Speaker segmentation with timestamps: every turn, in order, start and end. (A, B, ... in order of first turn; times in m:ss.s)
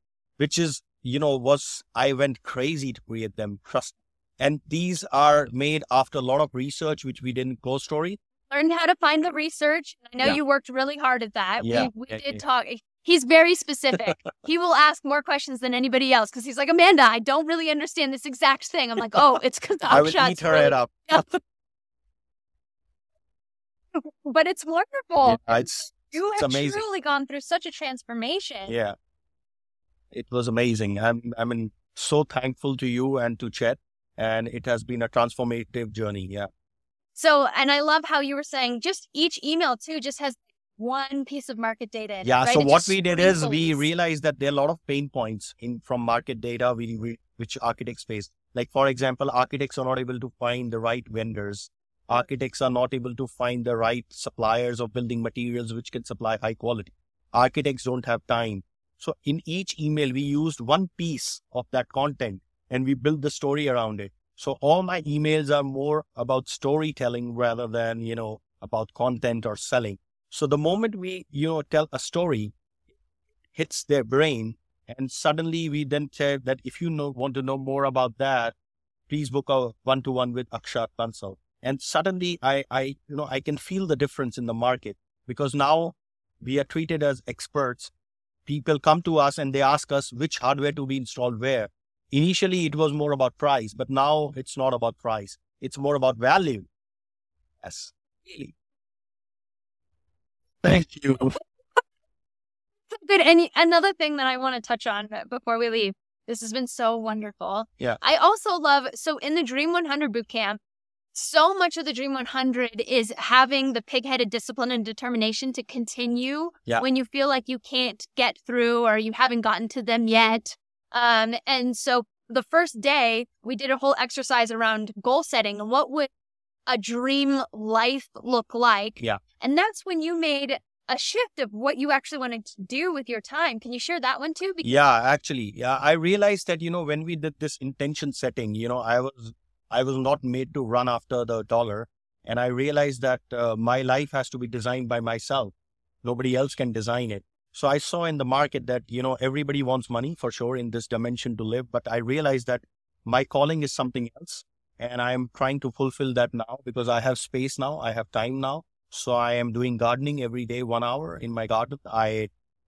0:00.4-0:08.2 A
0:08.5-0:21.3 B
0:11.6-0:12.4 A
0:19.9-0:21.3 A
0:24.0-0:28.7 B
0:25.2-0:26.8 A
0:28.7-0:29.0 A
0:30.1-0:36.5 A
0:37.2-0:43.8 B
0:42.2-1:12.6 A
1:13.6-1:18.6 A
1:19.1-1:27.9 A
1:28.5-1:36.7 A
1:37.6-1:38.6 A
1:40.6-1:41.4 A
1:42.9-1:50.6 B
1:51.1-2:06.1 B
2:06.7-2:14.7 B
2:14.6-2:42.3 A